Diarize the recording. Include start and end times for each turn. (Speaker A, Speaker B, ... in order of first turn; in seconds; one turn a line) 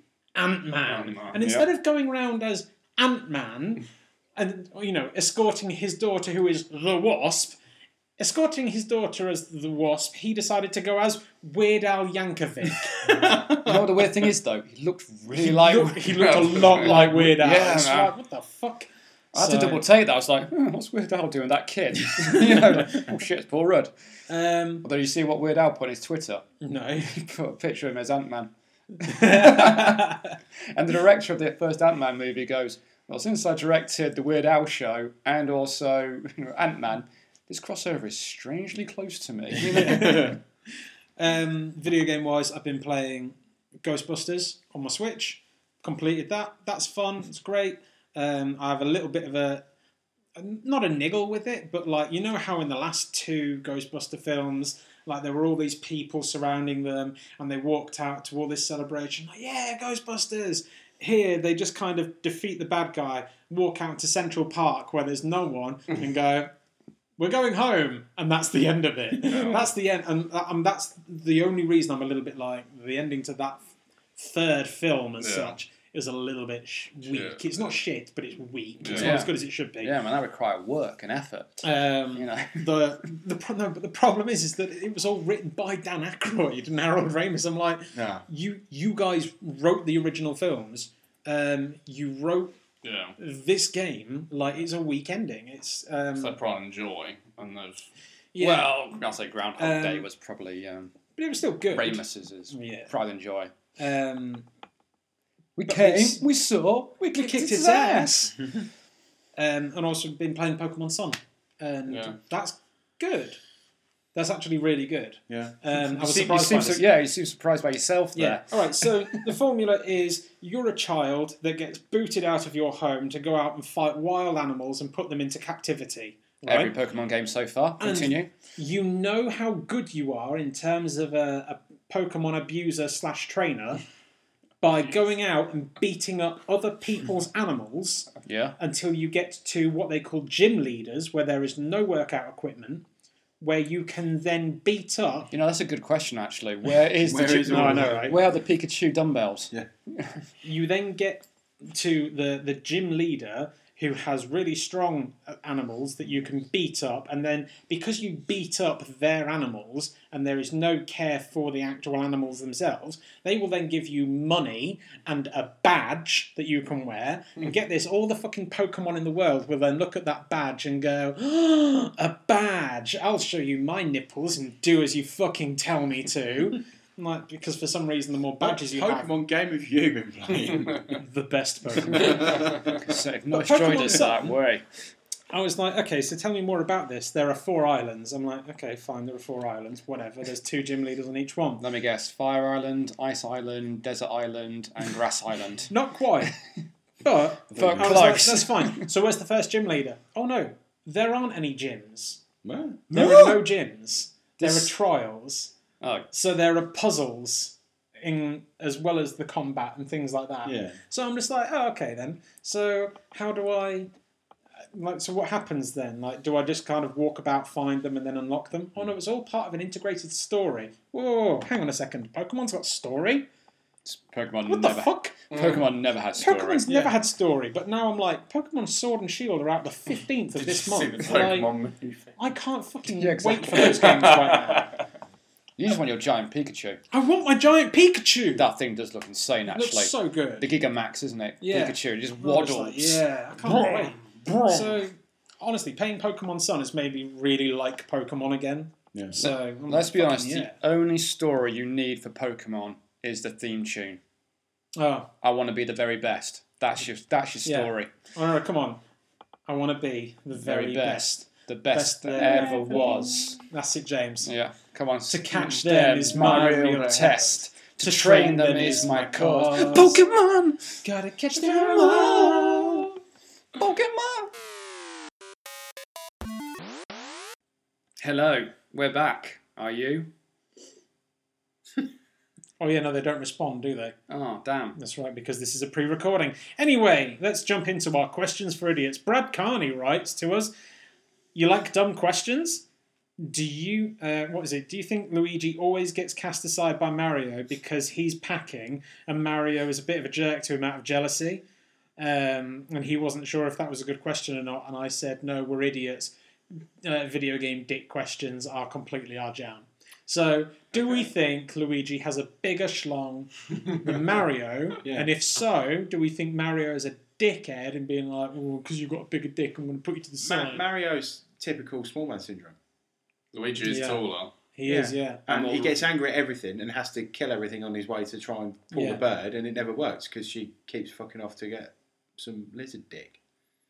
Speaker A: 0.4-3.9
Speaker B: 0.9-1.4
Speaker C: 1.4-1.7
Speaker A: 4.4-7.6
Speaker A: 8.2-13.3
Speaker D: 13.0-14.1
Speaker C: 13.5-18.1
Speaker A: 15.3-19.8
Speaker B: 16.1-16.9
Speaker C: 19.3-23.9
Speaker A: 24.3-24.9
Speaker C: 24.8-26.5
Speaker A: 26.6-27.2
Speaker C: 27.1-28.5
Speaker A: 29.0-30.4
Speaker C: 29.0-30.2
Speaker C: 30.7-40.4
Speaker A: 39.7-40.3
Speaker D: 39.8-40.4
Speaker A: 41.2-49.6
Speaker A: 50.4-66.5
Speaker A: 67.2-73.6
Speaker B: 69.2-69.7
Speaker A: 74.2-79.9
Speaker B: 75.2-75.6
Speaker B: 77.1-77.4
Speaker B: 78.8-79.1
Speaker C: 78.9-82.7
Speaker A: 81.6-92.6
Speaker D: 88.0-88.2
Speaker B: 92.8-93.2
Speaker A: 93.2-96.4
Speaker B: 96.2-97.9
Speaker A: 98.3-98.8
Speaker C: 98.4-101.0
Speaker A: 99.6-100.1
Speaker A: 101.2-102.9
Speaker C: 101.7-103.5
Speaker A: 103.8-104.5
Speaker C: 105.6-108.3
Speaker A: 105.7-106.2
Speaker A: 107.0-108.3
Speaker A: 109.4-113.4
Speaker B: 111.9-112.2
Speaker A: 114.1-116.8
Speaker D: 115.3-115.5
Speaker C: 115.8-119.2
Speaker A: 118.2-126.7
Speaker C: 126.5-128.3
Speaker A: 127.8-133.8
Speaker A: 134.6-142.8
Speaker C: 138.2-138.6
Speaker A: 143.4-145.3
Speaker C: 145.3-150.2
Speaker D: 147.0-148.2
Speaker A: 147.5-148.2
Speaker A: 150.4-179.1
Speaker D: 178.4-181.0
Speaker A: 180.9-182.5
Speaker D: 181.9-182.6
Speaker C: 182.0-184.6
Speaker A: 183.3-184.3
Speaker A: 185.3-191.7
Speaker C: 191.6-195.7
Speaker A: 195.7-196.3
Speaker A: 197.0-202.2
Speaker D: 197.5-198.2
Speaker C: 197.6-198.9
Speaker D: 202.4-202.9
Speaker C: 202.9-203.4
Speaker A: 202.9-205.5
Speaker C: 204.4-204.7
Speaker C: 205.8-206.1
Speaker A: 206.1-213.9
Speaker D: 210.4-210.8
Speaker A: 214.7-223.3
Speaker C: 223.8-226.7
Speaker A: 224.5-225.2
Speaker B: 225.3-225.6
Speaker A: 226.2-231.5
Speaker B: 230.4-232.2
Speaker A: 232.2-234.7
Speaker C: 232.9-234.4
Speaker B: 233.6-234.7
Speaker C: 235.6-236.8
Speaker A: 236.9-238.5
Speaker C: 238.4-244.8
Speaker A: 239.5-240.5
Speaker A: 241.4-250.6
Speaker C: 249.1-254.0
Speaker A: 254.8-255.1
Speaker C: 255.2-257.9
Speaker A: 257.4-258.8
Speaker A: 259.5-264.3
Speaker C: 260.4-263.4
Speaker C: 264.2-270.8
Speaker A: 265.1-270.0
Speaker B: 266.2-267.0
Speaker A: 270.8-272.9
Speaker C: 271.3-272.9
Speaker C: 273.6-274.3
Speaker C: 278.0-280.1
Speaker A: 282.6-284.0
Speaker C: 284.1-284.8
Speaker A: 284.8-290.5
Speaker A: 291.4-292.6
Speaker A: 293.2-301.4
Speaker A: 302.0-306.1
Speaker A: 306.8-320.6
Speaker D: 320.2-322.6
Speaker B: 323.3-324.3
Speaker A: 323.6-324.0
Speaker A: 324.5-325.2
Speaker D: 324.6-333.2
Speaker C: 325.3-325.8
Speaker A: 328.7-329.0